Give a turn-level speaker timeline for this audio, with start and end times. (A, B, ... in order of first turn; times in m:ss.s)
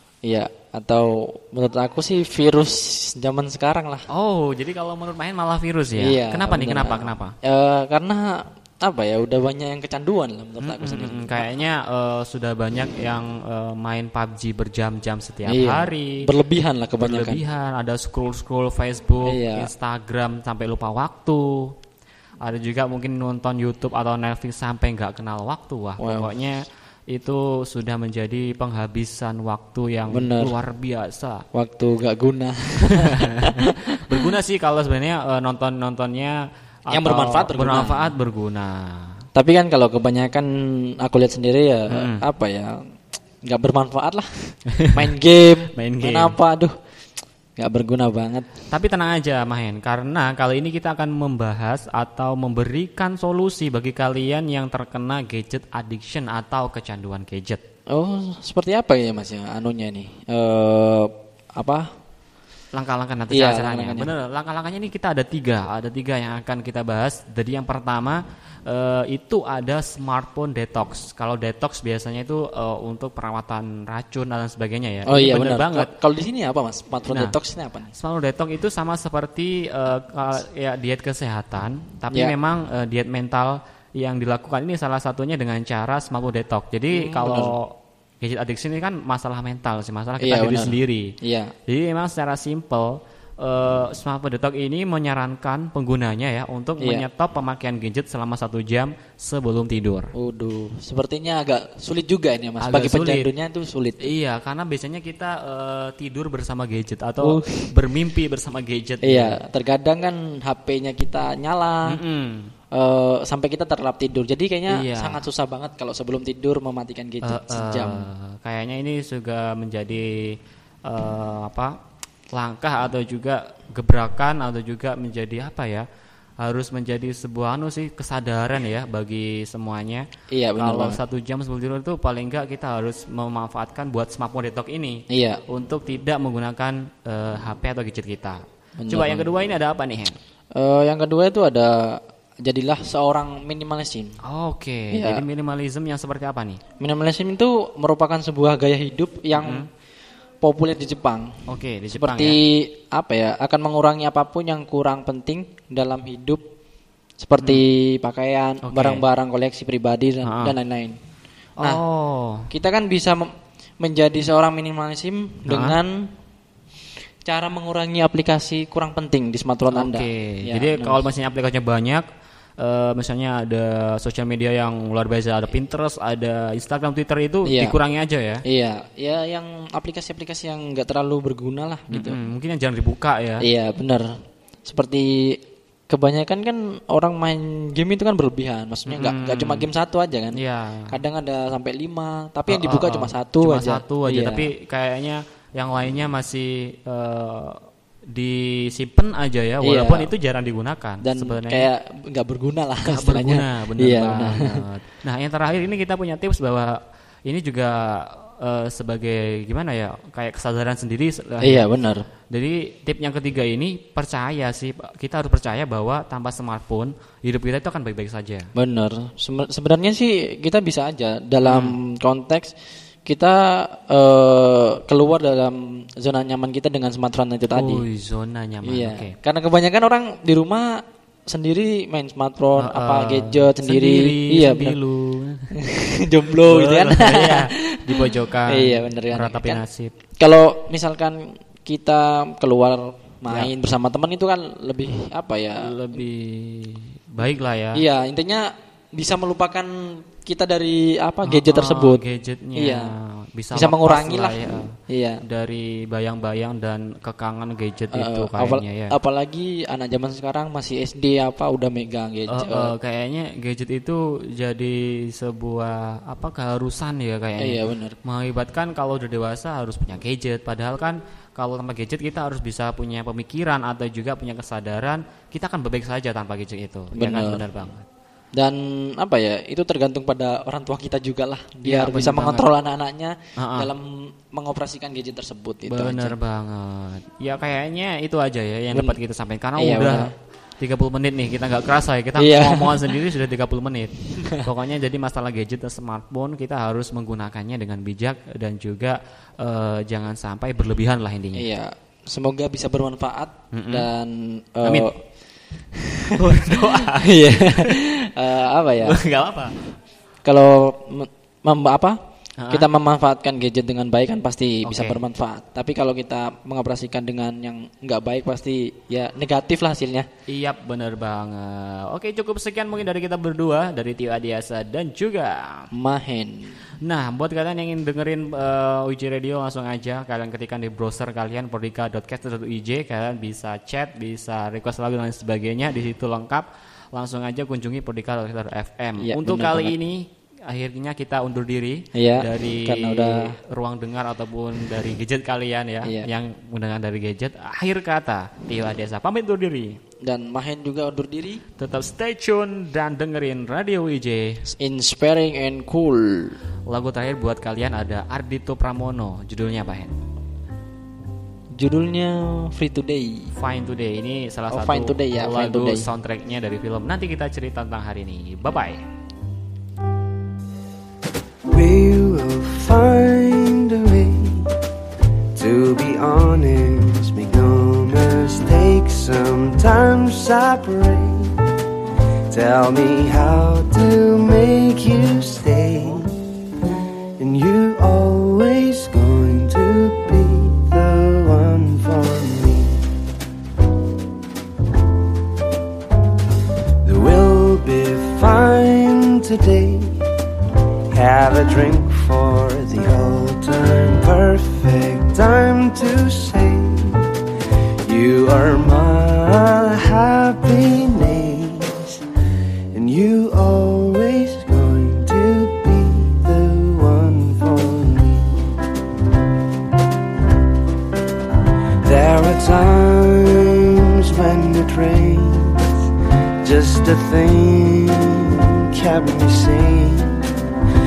0:00.2-0:04.1 A
0:04.1-0:07.4 B
0:06.0-0:11.4 A
0:10.6-0:16.2 B
0:15.5-0:17.4 A
0:17.0-0:21.8 B
0:19.3-0:19.7 A
0:22.4-0:31.4 B
0:26.0-0:26.3 A
0:30.1-0:30.5 A
0:31.5-0:34.2 A
0:34.0-0:39.2 B
0:36.9-0:38.1 A
0:39.4-0:42.8 A
0:41.9-0:42.2 B
0:43.5-0:46.8 A
0:45.7-0:46.4 B
0:47.6-0:48.5 A
0:48.7-0:57.6 B
0:57.9-1:01.9 A
1:02.7-1:15.9 B
1:03.3-1:04.1 A
1:15.1-1:17.9 A
1:17.9-1:31.1 B
1:26.9-1:27.6 A
1:30.2-1:31.5 A
1:31.7-1:40.1 B
1:40.1-1:44.1 A
1:42.6-1:43.3 B
1:44.0-1:49.4 B
1:47.2-1:47.7 A
1:49.0-1:52.0 A
1:51.9-1:52.5 B
1:52.7-1:58.1 A
1:54.7-1:55.2 B
1:57.2-2:01.8 B
2:02.3-2:05.9 B
2:06.4-2:10.1 B
2:10.3-2:11.0 A
2:10.6-2:20.2 B
2:15.1-2:15.4 A
2:18.8-2:19.3 A
2:20.6-2:24.2 A
2:24.2-2:26.6 B
2:24.9-2:25.2 A
2:26.8-2:29.7 A
2:29.4-2:29.7 B
2:30.4-2:36.4 A
2:31.5-2:32.4 B
2:37.2-2:41.0 A
2:38.6-2:39.0 B
2:40.2-2:40.5 B
2:41.6-2:42.5 B
2:42.5-2:46.1 A
2:45.5-2:45.8 B
2:47.2-2:51.0 A
2:49.7-2:52.0 B
2:52.6-2:58.4 B
2:57.4-2:57.8 A
2:58.4-3:02.2 A
3:01.9-3:03.4 B
3:03.4-3:14.5 A
3:08.9-3:09.7 B
3:10.4-3:10.9 B
3:12.5-3:21.7 B
3:19.6-3:20.1 A
3:21.0-3:24.6 A
3:22.9-3:31.7 B
3:31.4-3:32.0 A
3:32.3-3:38.5 B
3:38.6-3:42.5 A
3:41.4-3:41.7 B
3:43.0-3:47.8 A
3:47.5-3:49.2 B
3:48.6-3:54.8 A
3:52.6-3:55.5 B
3:55.6-3:59.6 A
3:56.4-3:59.9 B
4:00.2-4:05.7 A
4:05.6-4:07.8 B
4:07.8-4:12.0 A
4:11.3-4:18.9 B
4:12.6-4:12.9 A
4:13.5-4:15.2 A
4:17.9-4:22.7 A
4:22.3-4:37.9 B
4:27.4-4:28.0 A
4:36.9-4:37.4 A
4:38.4-4:46.2 A
4:41.6-4:42.5 B
4:43.4-4:43.7 B
4:45.7-5:01.4 B
4:48.7-4:49.0 A
4:49.6-4:50.1 A
4:52.2-4:52.9 A
5:01.4-5:04.9 A
5:03.5-5:03.9 B
5:05.8-5:09.0 A
5:06.1-5:07.7 B
5:08.8-5:09.6 B
5:10.2-5:12.0 A
5:12.4-5:12.7 B
5:12.5-5:20.1 A
5:14.6-5:15.0 B
5:20.3-5:25.7 B
5:25.7-5:26.6 A
5:26.8-5:49.8 B
5:39.0-5:39.7 A
5:42.0-5:43.3 A
5:45.8-5:46.1 A
5:50.0-5:51.4 A
5:51.6-5:54.4 B
5:54.6-5:56.4 A
5:56.7-5:59.9 B
6:01.6-6:03.3 A
6:03.4-6:08.8 B
6:04.5-6:05.9 A
6:11.5-6:14.5 C
6:15.3-6:21.4 C
6:22.3-6:26.1 C
6:27.2-6:32.8 C
6:36.8-6:40.0 C
6:40.9-6:47.1 C
6:47.8-6:52.0 C
6:52.7-6:58.5 C
7:01.8-7:05.9 C
7:06.4-7:10.2 C